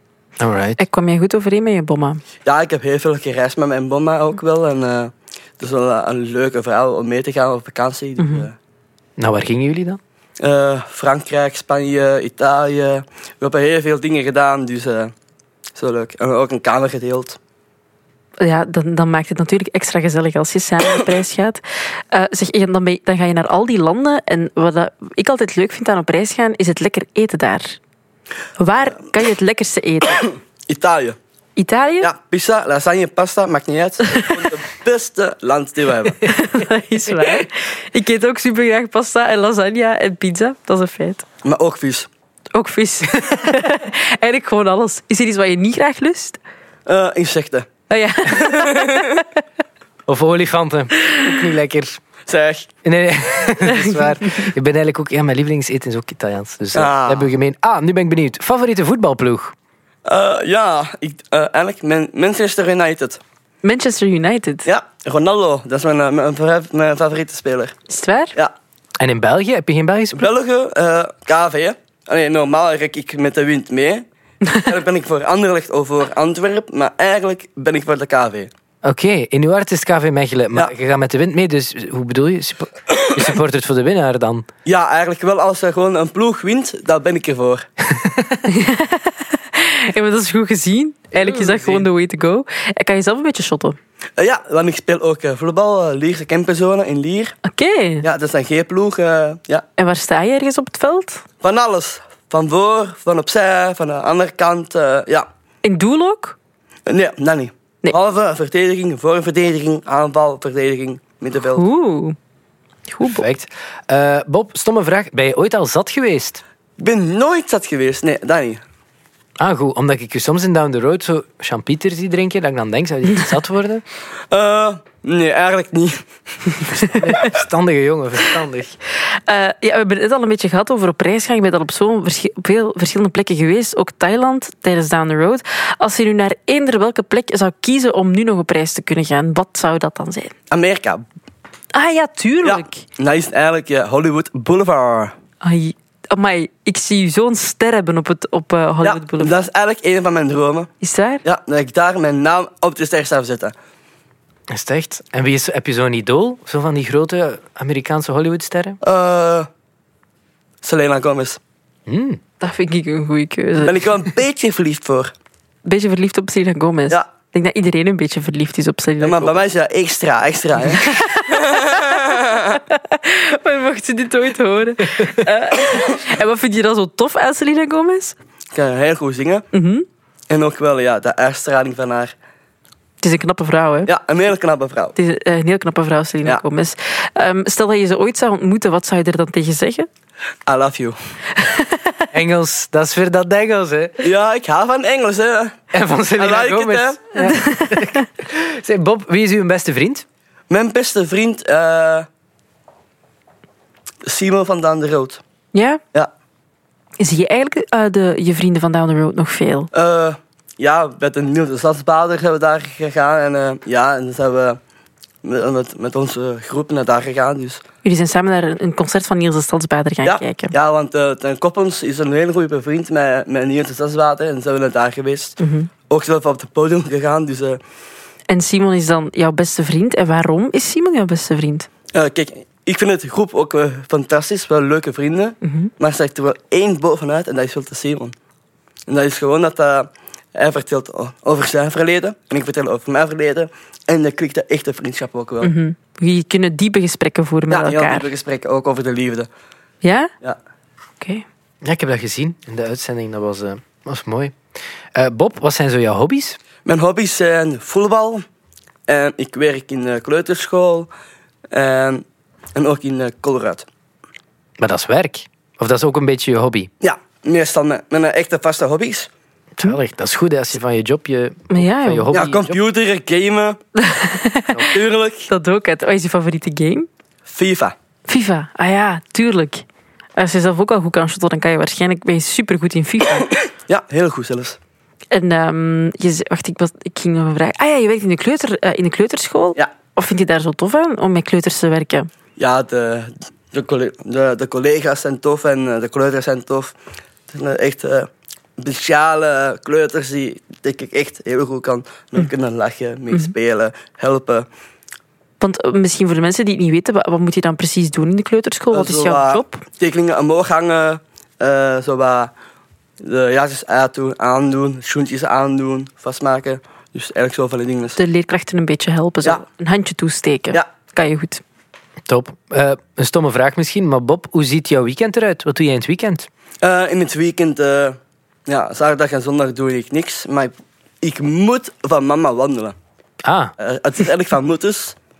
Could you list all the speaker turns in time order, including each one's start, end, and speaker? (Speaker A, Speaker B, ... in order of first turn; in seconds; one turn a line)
Speaker A: 0.4-0.8
Speaker B: 0.8-2.2
Speaker C: 2.4-8.5
Speaker B: 8.2-8.4
Speaker A: 9.2-10.0
Speaker C: 10.4-15.1
Speaker C: 15.7-17.4
Speaker B: 18.4-27.8
Speaker B: 28.6-30.3
Speaker C: 30.7-31.2
Speaker B: 31.6-32.1
Speaker C: 32.0-36.2
Speaker B: 36.2-41.2
Speaker C: 41.4-42.1
Speaker B: 42.5-46.4
Speaker C: 46.9-47.7
Speaker B: 47.9-49.2
Speaker C: 48.3-49.2
Speaker A: 50.1-52.0
Speaker C: 52.3-52.7
Speaker A: 52.8-59.5
Speaker B: 53.7-54.5
Speaker C: 56.7-57.3
Speaker C: 60.0-63.2
Speaker B: 63.6-64.7
Speaker C: 64.7-67.8
Speaker B: 67.9-68.3
Speaker A: 69.0-70.3
Speaker C: 70.1-78.5
Speaker A: 78.8-84.5
Speaker C: 84.7-87.7
Speaker A: 88.0-88.3
Speaker B: 88.5-93.8
Speaker A: 91.2-91.8
Speaker C: 94.2-97.3
Speaker B: 97.4-98.0
Speaker C: 98.0-99.6
Speaker B: 99.8-101.2
Speaker C: 101.4-105.3
Speaker B: 105.6-106.3
Speaker C: 106.9-111.6
Speaker B: 111.4-112.2
Speaker B: 112.9-113.2
Speaker A: 113.0-116.4
Speaker C: 116.8-118.6
Speaker A: 119.4-123.8
Speaker C: 124.3-126.0
Speaker A: 126.8-128.8
Speaker B: 129.0-140.3
Speaker C: 140.5-141.0
Speaker B: 141.7-142.8
Speaker C: 142.4-145.1
Speaker B: 145.4-149.3
Speaker C: 148.8-150.7
Speaker B: 150.8-151.2
Speaker C: 151.2-153.5
Speaker A: 154.5-158.8
Speaker C: 158.8-159.5
Speaker C: 160.6-161.4
Speaker A: 161.9-162.2
Speaker B: 162.4-163.8
Speaker C: 163.6-165.1
Speaker B: 165.6-169.4
Speaker C: 169.0-172.6
Speaker B: 170.7-178.2
Speaker C: 178.5-179.5
Speaker B: 179.5-179.8
Speaker C: 180.3-182.1
Speaker B: 183.0-183.9
Speaker C: 183.8-184.9
Speaker B: 184.9-189.9
Speaker C: 190.4-191.0
Speaker B: 191.3-192.1
Speaker A: 192.1-193.9
Speaker C: 194.0-195.6
Speaker A: 195.7-200.0
Speaker C: 196.2-197.0
Speaker B: 197.2-198.0
Speaker C: 200.5-202.1
Speaker C: 204.0-205.2
Speaker B: 205.5-205.8
Speaker B: 207.0-209.7
Speaker C: 209.7-214.6
Speaker C: 215.2-217.6
Speaker B: 217.8-220.5
Speaker C: 220.0-225.4
Speaker B: 225.4-225.7
Speaker C: 225.9-227.6
Speaker B: 228.3-231.7
Speaker C: 231.9-238.1
Speaker B: 235.4-235.7
Speaker C: 238.9-245.5
Speaker B: 245.4-248.1
Speaker C: 247.5-249.3
Speaker B: 249.8-250.1
Speaker A: 251.6-254.3
Speaker A: 254.9-256.4
Speaker C: 256.6-258.2
Speaker C: 258.9-260.9
Speaker C: 261.5-263.7
Speaker A: 264.6-266.7
Speaker C: 266.8-269.1
Speaker A: 269.6-272.6
Speaker B: 271.5-272.1
Speaker C: 272.1-273.6
Speaker B: 273.8-274.7
Speaker C: 274.7-275.3
Speaker B: 275.3-276.9
Speaker C: 277.2-277.7
Speaker B: 278.1-279.6
Speaker B: 280.1-283.3
Speaker C: 283.7-284.6
Speaker B: 285.1-292.1
Speaker C: 292.4-296.7
Speaker C: 297.3-304.5
Speaker B: 305.4-309.6
Speaker C: 308.7-312.3
Speaker C: 313.0-318.0
Speaker B: 318.0-321.4
Speaker A: 322.1-326.3
Speaker C: 326.6-332.7
Speaker A: 333.2-333.5
Speaker C: 333.6-335.0